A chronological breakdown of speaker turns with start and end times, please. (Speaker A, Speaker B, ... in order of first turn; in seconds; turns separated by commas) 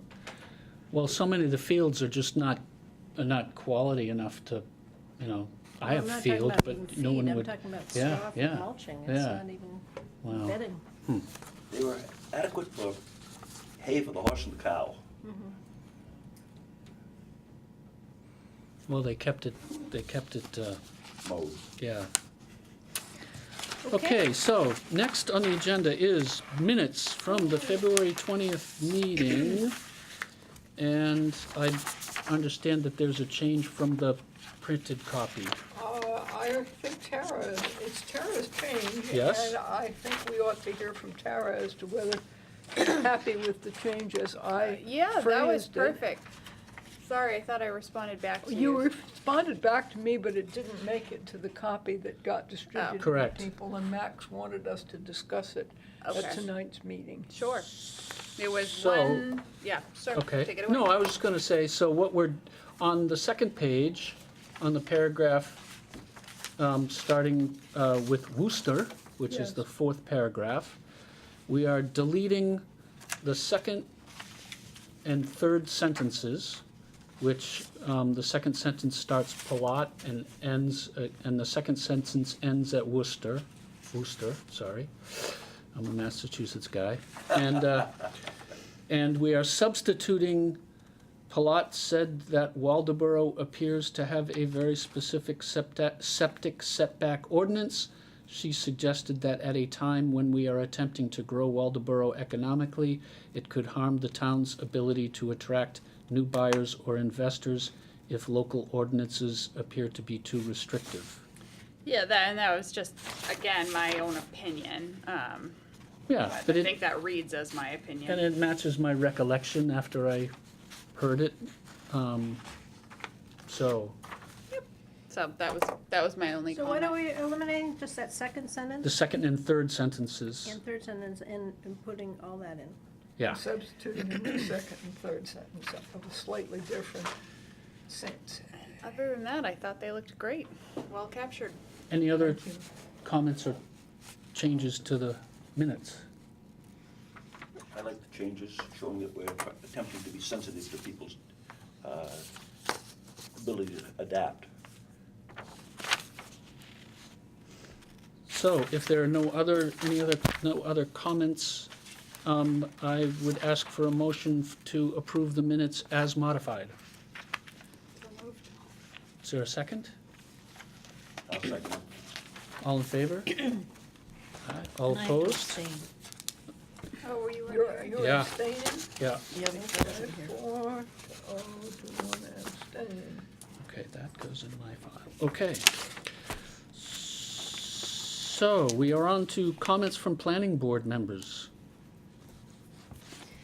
Speaker A: 0.9-2.6, Speaker A: 3.2-4.7, Speaker A: 5.2-9.4, Speaker B: 5.8-10.8, Speaker A: 10.2-11.2, Speaker C: 11.7-13.0, Speaker C: 13.8-15.0, Speaker B: 15.2-15.6, Speaker A: 18.9-20.8, Speaker C: 21.2-21.6, Speaker A: 21.8-22.1, Speaker A: 23.9-29.8, Speaker B: 23.9-24.2, Speaker A: 30.8-35.6, Speaker D: 35.7-42.2, Speaker A: 39.1-39.5, Speaker D: 42.7-46.0, Speaker E: 44.6-46.3, Speaker E: 47.0-48.9, Speaker D: 48.4-57.3, Speaker E: 52.8-53.0, Speaker A: 53.0-53.5, Speaker E: 56.0-56.4, Speaker E: 57.3-57.7, Speaker E: 58.4-61.0, Speaker A: 58.7-59.3, Speaker A: 60.1-65.6, Speaker A: 66.6-70.8, Speaker D: 69.3-69.6, Speaker A: 71.5-72.6, Speaker A: 73.2-73.9, Speaker A: 75.0-76.6, Speaker A: 77.2-88.1, Speaker A: 88.9-90.6, Speaker A: 91.3-111.2, Speaker E: 111.8-115.6, Speaker A: 116.1-116.8, Speaker E: 116.2-118.3, Speaker A: 118.1-120.3, Speaker A: 121.0-122.4, Speaker A: 123.5-124.0, Speaker E: 124.5-127.0, Speaker B: 126.5-128.9, Speaker A: 128.8-130.6, Speaker B: 130.5-132.8, Speaker D: 133.3-137.1, Speaker D: 137.9-138.5, Speaker E: 138.8-141.6, Speaker A: 141.9-142.4, Speaker D: 142.1-142.7, Speaker A: 143.0-143.6, Speaker A: 144.3-146.0, Speaker C: 147.7-151.2, Speaker C: 151.8-152.3, Speaker C: 153.3-154.5, Speaker A: 158.3-161.7, Speaker A: 162.2-166.8, Speaker E: 168.0-168.5, Speaker A: 169.2-169.9, Speaker C: 171.3-171.8, Speaker A: 172.6-173.6, Speaker A: 174.4-175.6, Speaker B: 174.9-175.9, Speaker E: 177.0-178.0, Speaker D: 177.5-183.3, Speaker A: 178.0-178.3, Speaker A: 179.0-179.3, Speaker A: 183.6-186.1, Speaker A: 186.7-191.5